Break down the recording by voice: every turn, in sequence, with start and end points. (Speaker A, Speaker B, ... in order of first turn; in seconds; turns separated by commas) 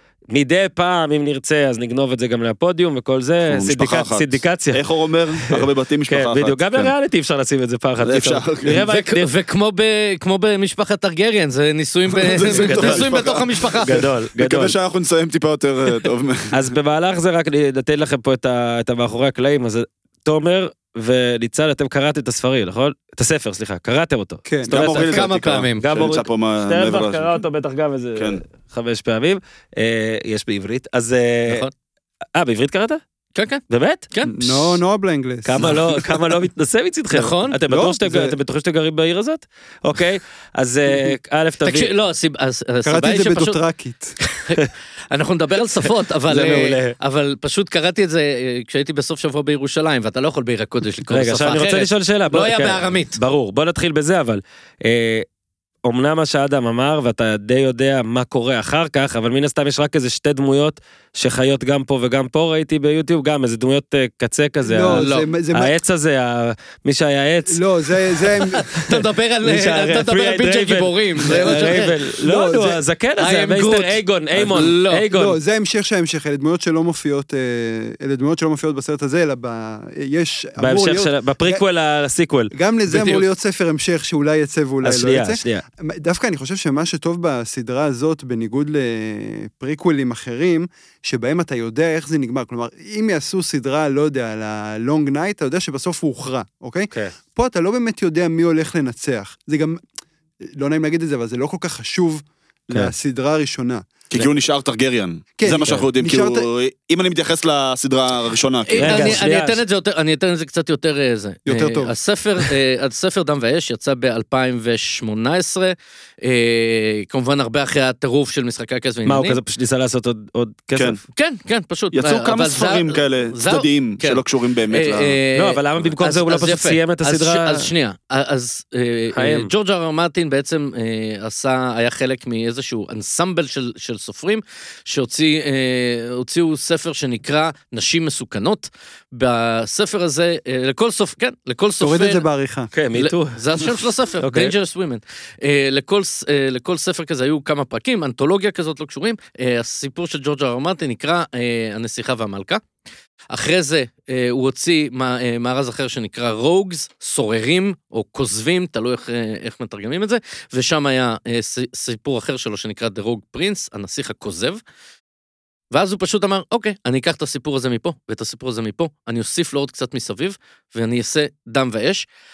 Speaker A: 0.3-4.8, Speaker B: 3.5-6.9, Speaker A: 5.4-9.3, Speaker B: 8.0-8.7, Speaker C: 8.6-14.1, Speaker B: 12.1-16.6, Speaker A: 12.5-13.1, Speaker A: 13.8-14.7, Speaker A: 16.5-31.6, Speaker D: 24.5-24.8, Speaker B: 24.7-27.4, Speaker C: 25.1-25.9, Speaker B: 28.2-28.4, Speaker C: 31.5-31.7, Speaker A: 32.4-33.0, Speaker C: 33.4-34.4, Speaker A: 33.7-34.0, Speaker D: 34.2-36.1, Speaker A: 35.5-41.9, Speaker C: 37.1-37.6, Speaker D: 37.7-38.4, Speaker C: 41.6-43.6, Speaker D: 42.9-44.1, Speaker C: 44.2-53.2, Speaker A: 46.3-47.0, Speaker A: 51.1-55.2, Speaker A: 55.9-67.6, Speaker D: 64.6-65.8, Speaker C: 64.9-65.3, Speaker D: 67.5-68.7, Speaker C: 68.7-72.0, Speaker A: 68.8-75.4, Speaker D: 71.4-71.7, Speaker D: 72.2-72.8, Speaker C: 73.2-75.0, Speaker D: 75.1-81.6, Speaker A: 80.6-82.5, Speaker D: 82.5-99.8, Speaker C: 82.9-83.2, Speaker A: 84.8-85.6, Speaker D: 100.5-103.9, Speaker B: 104.1-109.2, Speaker D: 105.4-106.5, Speaker C: 108.6-119.4, Speaker A: 108.8-109.6, Speaker D: 111.5-112.0, Speaker A: 119.0-121.0, Speaker C: 121.1-142.2, Speaker B: 121.9-125.2, Speaker A: 125.3-127.7, Speaker A: 129.2-129.5, Speaker D: 141.8-142.7, Speaker A: 142.7-143.4, Speaker C: 143.0-152.6, Speaker A: 144.2-144.5, Speaker C: 153.3-164.6, Speaker C: 165.7-172.1